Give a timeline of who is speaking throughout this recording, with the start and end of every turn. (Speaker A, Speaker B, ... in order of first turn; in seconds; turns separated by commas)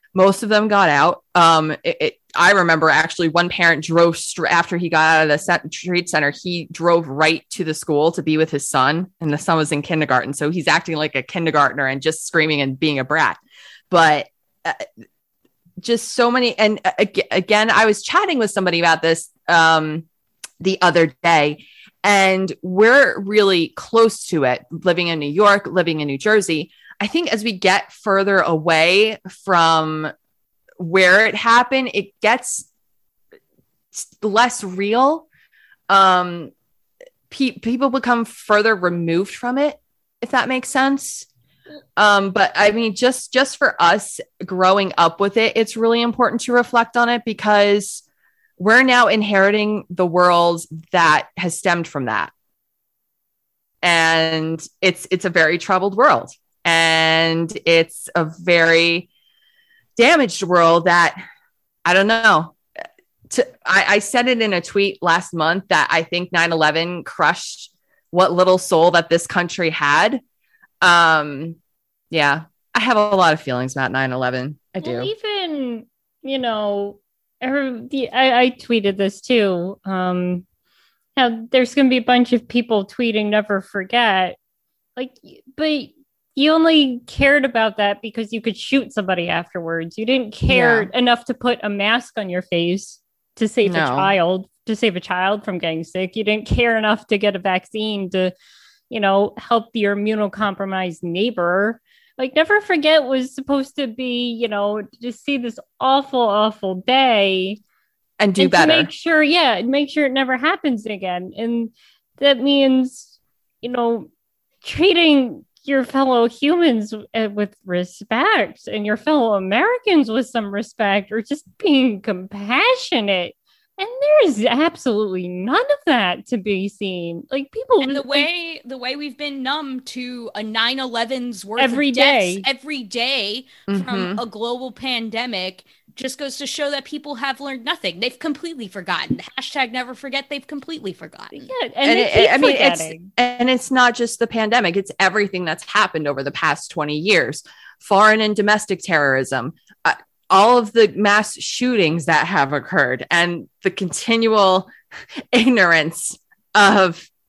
Speaker A: 0.1-13.4, Speaker A: 13.9-14.9, Speaker A: 15.8-20.1, Speaker A: 20.6-30.1, Speaker A: 30.8-32.7, Speaker A: 33.9-35.2, Speaker A: 35.9-36.5, Speaker A: 37.3-41.3, Speaker A: 42.0-48.0, Speaker A: 48.6-52.3, Speaker A: 53.8-59.1, Speaker A: 60.0-61.2, Speaker A: 61.9-62.6, Speaker A: 63.3-70.2, Speaker A: 70.8-71.6, Speaker A: 72.1-75.1, Speaker B: 74.8-80.4, Speaker B: 81.2-84.4, Speaker B: 85.0-98.3, Speaker A: 90.5-90.9, Speaker A: 93.6-94.1, Speaker B: 98.9-107.6, Speaker A: 108.2-108.9, Speaker B: 108.4-114.1, Speaker B: 114.6-128.3, Speaker C: 127.8-141.5, Speaker B: 131.6-132.4, Speaker A: 133.7-134.2, Speaker B: 141.3-143.1, Speaker A: 141.8-154.7, Speaker A: 155.3-157.1